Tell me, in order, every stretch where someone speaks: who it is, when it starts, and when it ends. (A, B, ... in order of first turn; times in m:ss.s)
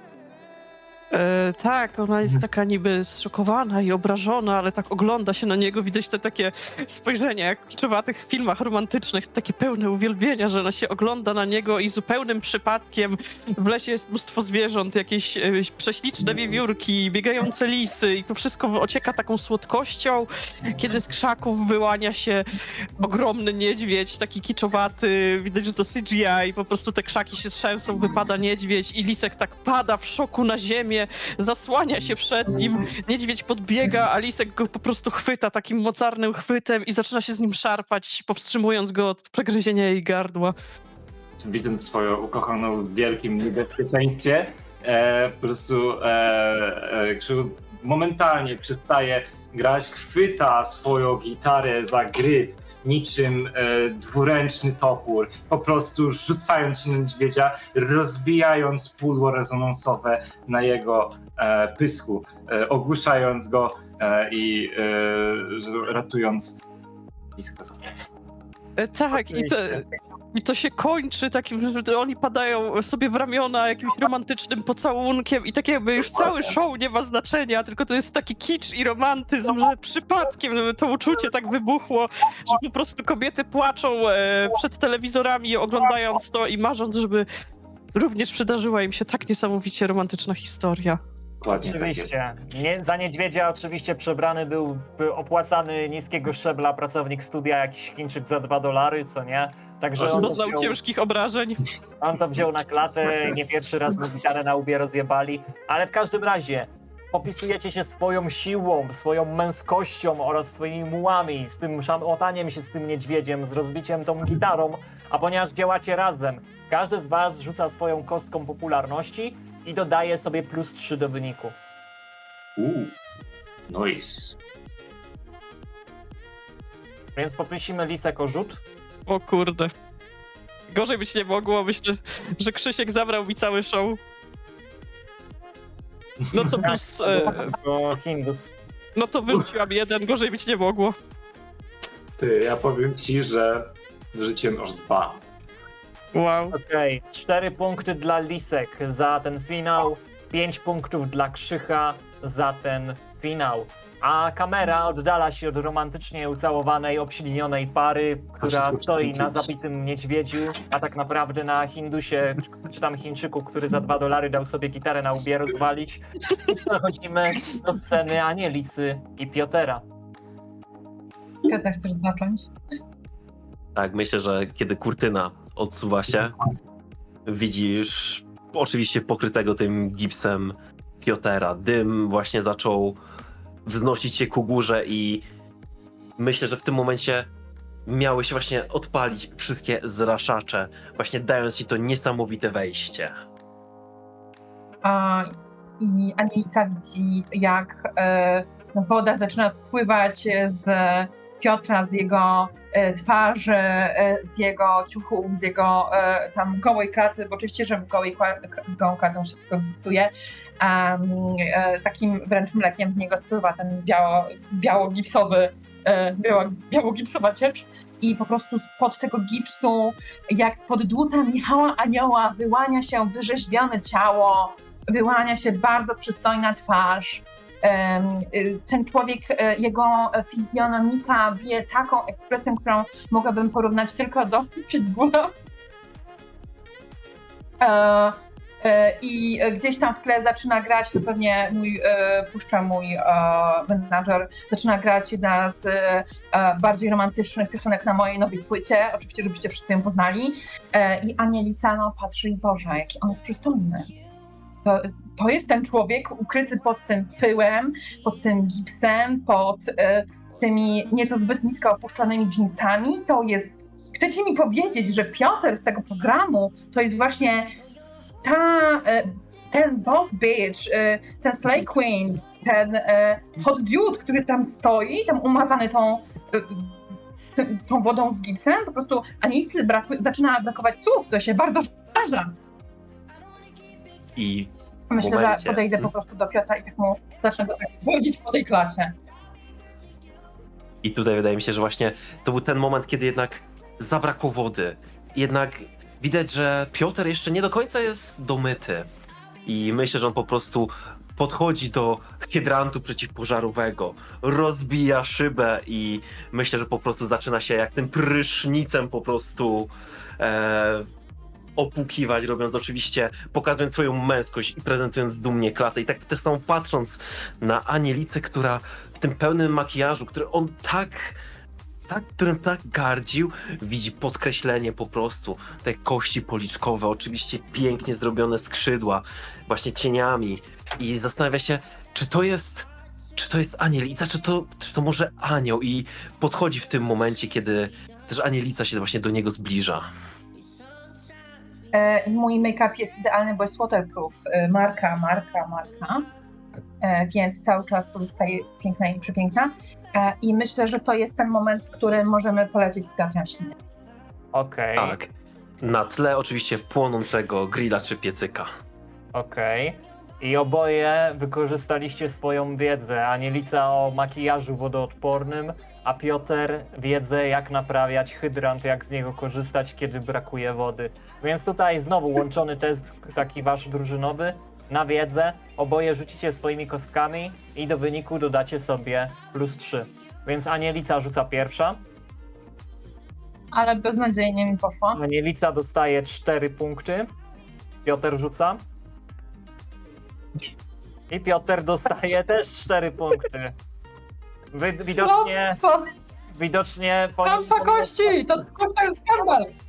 0:01.1-0:40.5 A
0:41.4-1:06.6 B
1:07.4-1:08.0 B
1:08.8-1:27.2 A
1:09.2-1:09.5 C
1:28.0-1:31.0 A
1:31.4-1:32.1 B
1:31.5-1:40.8 C
1:40.0-1:40.3 B
1:40.1-1:41.7 A
1:42.0-2:01.6 C
2:02.6-2:02.9 B
2:03.7-2:04.4 B
2:07.2-2:08.6 C
2:09.1-2:09.7 A
2:10.7-2:14.0 A
2:16.3-2:16.6 B
2:16.3-2:17.5 A
2:16.6-2:18.5 C
2:19.0-2:21.0 A
2:22.2-2:25.2 B
2:26.1-2:26.6 A
2:26.5-2:49.8 C
2:38.6-2:39.3 B
2:51.4-2:52.5 D
2:53.8-2:56.4 E
2:57.3-3:03.0 E
3:03.7-3:05.2 E
3:06.2-3:07.3 E
3:07.9-3:13.2 E
3:14.8-3:15.3 D
3:15.8-3:55.3 D
3:57.6-4:13.9 D
4:14.6-4:27.5 D
4:28.2-4:36.8 D
4:37.4-4:42.3 D
4:44.2-4:45.7 E
4:44.9-4:48.9 D
4:50.8-4:58.9 E
4:59.5-5:10.9 E
5:11.6-5:21.2 E
5:21.9-5:39.9 E
5:41.7-5:46.0 D
5:46.8-5:53.6 D
5:54.3-5:55.0 C
5:54.8-5:55.1 E
5:55.6-5:58.5 E
5:59.1-6:21.8 C
6:23.5-6:25.0 D
6:25.0-6:27.1 C
6:27.8-6:28.6 C
6:31.1-6:33.5 C
6:34.5-6:35.6 C
6:35.0-6:35.9 D
6:36.3-6:38.2 C
6:37.2-6:39.5 D